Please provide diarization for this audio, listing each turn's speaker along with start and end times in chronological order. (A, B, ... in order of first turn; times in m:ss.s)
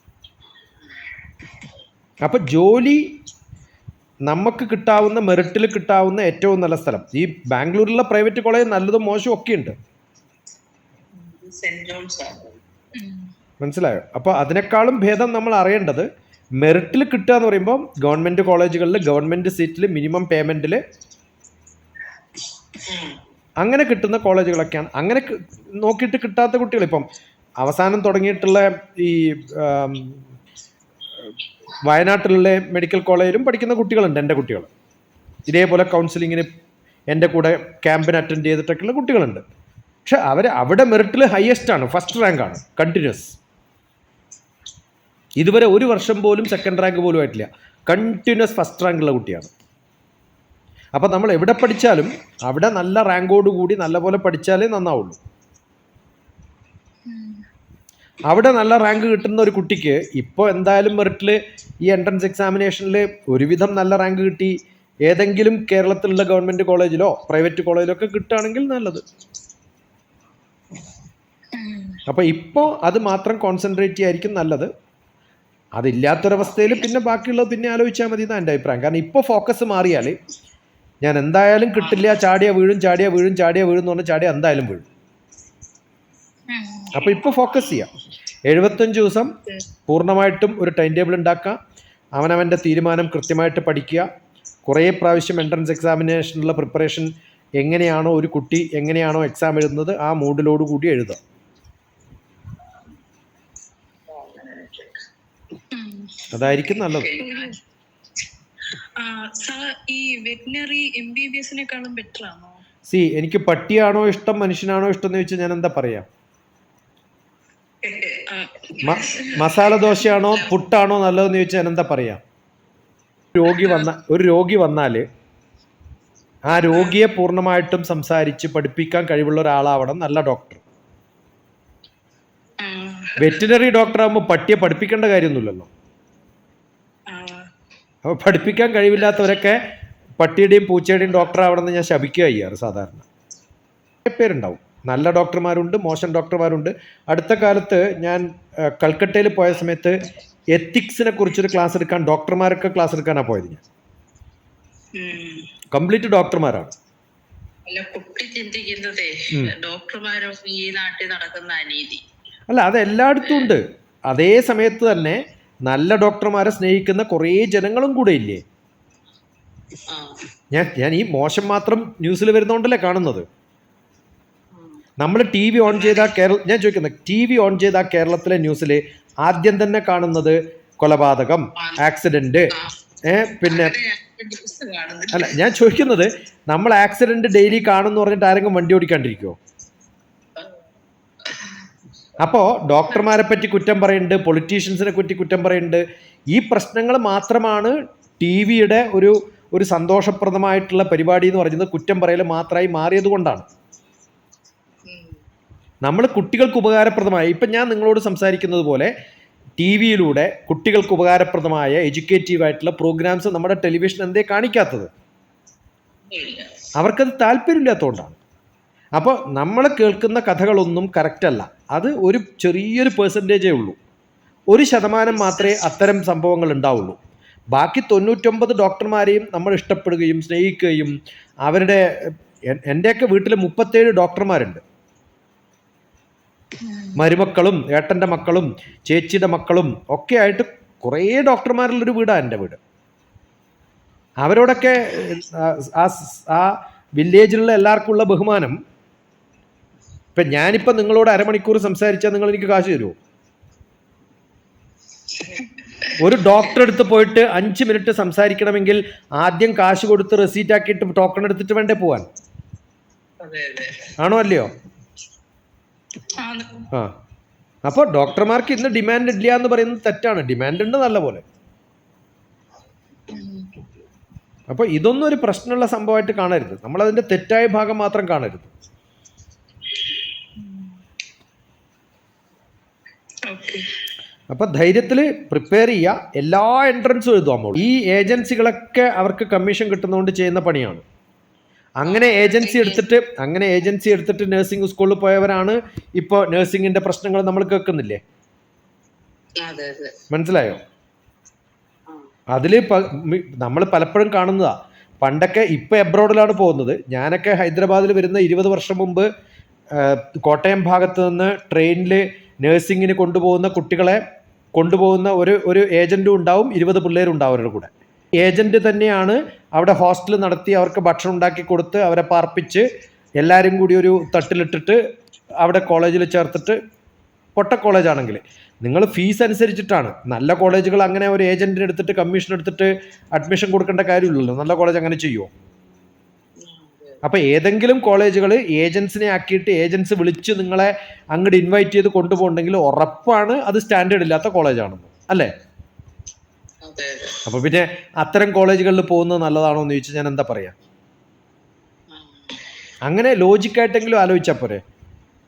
0:02.2-0:03.1 A
0:04.3-0:09.7 A
0:11.1-0:12.6 B
0:12.9-0:13.3 C
0:13.6-0:16.1 A
0:16.6-0:20.8 A
0:22.8-0:23.2 B
0:23.6-0:27.0 A
0:27.6-0:30.2 A
0:31.8-0:34.7 A
0:35.5-0:36.5 A
0:37.1-0:39.4 A
0:40.0-0:43.4 A
0:45.4-0:49.5 A
0:50.9-0:55.2 A
0:57.0-0:57.4 C
0:58.3-1:09.0 A
1:11.5-1:12.0 C
1:12.1-1:14.7 A
1:15.8-1:20.2 A
1:21.0-1:24.9 A
1:21.7-1:22.2 B
1:26.5-1:27.1 C
1:26.9-1:27.9 A
1:28.5-1:29.3 A
1:29.9-1:31.6 A
1:32.2-1:34.1 A
1:34.6-1:41.2 A
1:44.1-1:45.0 B
1:45.7-1:46.3 C
1:46.3-1:47.1 A
1:46.6-1:47.6 B
1:47.2-1:47.6 C
1:48.7-1:52.6 C
1:52.9-1:56.1 A
1:57.8-2:00.6 B
1:58.3-1:59.4 C
1:58.8-2:02.2 A
2:03.3-2:05.0 A
2:03.4-2:03.9 B
2:06.5-2:10.6 A
2:06.5-2:07.0 B
2:12.6-2:13.4 B
2:13.2-2:15.7 A
2:17.1-2:17.4 C
2:18.0-2:19.6 A
2:20.2-2:23.0 A
2:24.0-2:29.9 A
2:30.5-2:33.6 A
2:34.9-2:35.5 B
2:35.7-2:36.7 A
2:37.6-2:42.0 B
2:42.5-2:48.4 A
2:49.9-2:50.3 B
2:50.5-2:53.2 A
2:55.0-3:02.5 A
2:55.6-2:56.1 B
3:03.0-3:03.7 A
3:03.3-3:05.7 B
3:05.1-3:09.4 A
3:11.2-3:11.6 B
3:12.2-3:23.4 A
3:12.9-3:13.2 B
3:24.9-3:25.2 B
3:25.8-3:28.9 A
3:29.6-3:34.9 A
3:36.1-3:36.7 B
3:36.8-3:38.2 A
3:39.0-3:43.8 A
3:44.5-3:47.0 A
3:45.1-3:45.8 B
3:47.5-3:54.6 A
3:56.6-3:57.0 C
3:56.9-4:02.6 A
4:04.2-4:08.6 A
4:10.1-4:12.9 A
4:15.2-4:16.4 B
4:16.0-4:22.0 A
4:23.2-4:23.9 B
4:24.0-4:24.5 A
4:26.2-4:26.6 C
4:26.2-4:26.6 B
4:27.6-4:31.2 A
4:33.1-4:33.5 C
4:34.5-4:38.5 A
4:40.4-4:40.8 C
4:43.3-4:43.6 C
4:44.3-4:50.8 A
4:51.8-4:58.0 A
4:51.8-4:52.8 B
4:59.4-5:00.0 B
5:00.1-5:00.6 A
5:02.3-5:09.0 A
5:09.7-5:14.0 A
5:14.6-5:22.6 A
5:23.2-5:24.8 A
5:25.4-5:26.6 A
5:27.4-5:35.3 A
5:36.4-5:37.0 B
5:37.0-5:45.3 A
5:46.6-5:47.2 B
5:47.2-5:50.5 A
5:51.9-5:52.4 B
5:52.9-5:54.6 A